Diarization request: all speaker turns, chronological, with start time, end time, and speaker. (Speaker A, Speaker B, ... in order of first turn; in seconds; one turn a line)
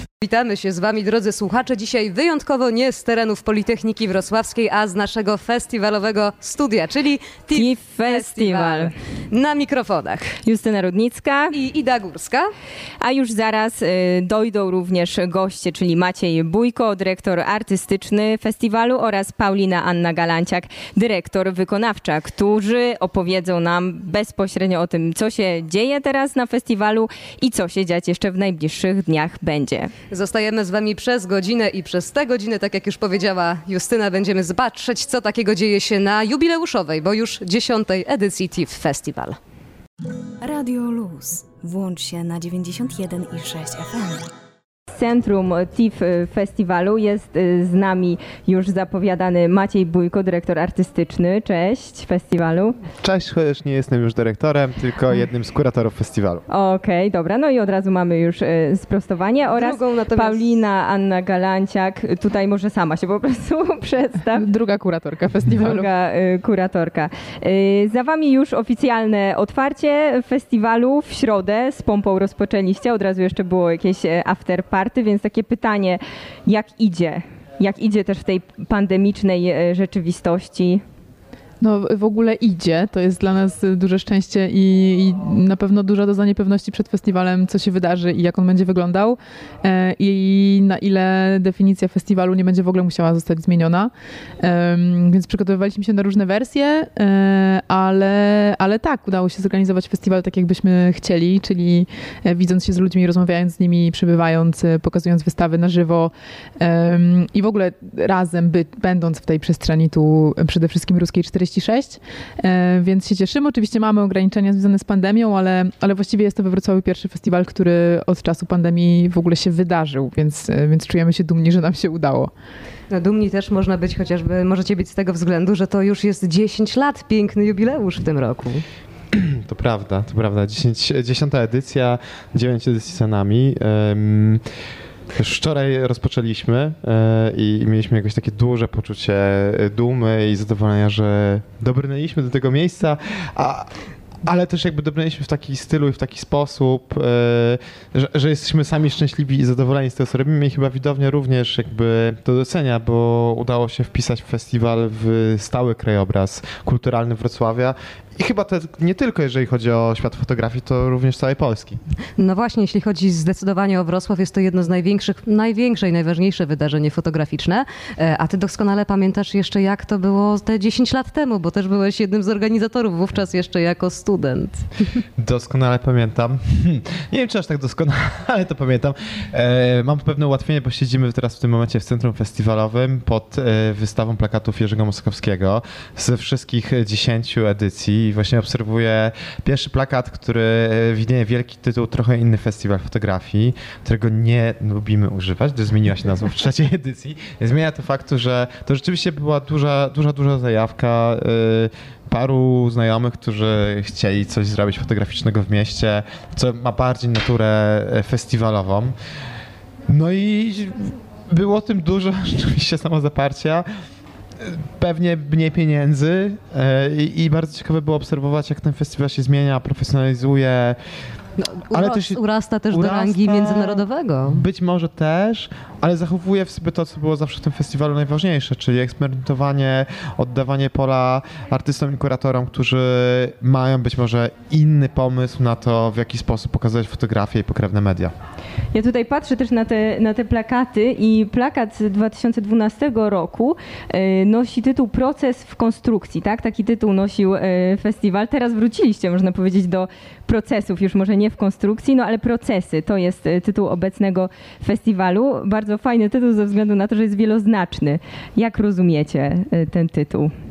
Speaker A: 0.2-10.4
Speaker B: 7.5-8.9
Speaker B: 10.4-11.5
Speaker A: 11.5-12.5
Speaker B: 13.0-29.9
Speaker A: 30.1-39.4
Speaker C: 40.4-44.3
Speaker B: 44.9-52.8
Speaker D: 53.0-56.4
Speaker B: 56.5-64.5
Speaker A: 59.5-60.5
Speaker E: 64.3-65.9
Speaker B: 65.6-80.8
Speaker E: 81.6-122.3
Speaker A: 122.9-128.6
Speaker D: 129.1-134.4
Speaker D: 135.2-143.7
Speaker D: 144.2-161.8
Speaker A: 162.2-175.0
Speaker D: 175.2-208.9
Speaker D: 209.9-213.7
Speaker D: 214.4-220.8
Speaker A: 221.4-224.4
Speaker D: 221.7-238.1
Speaker B: 238.7-260.3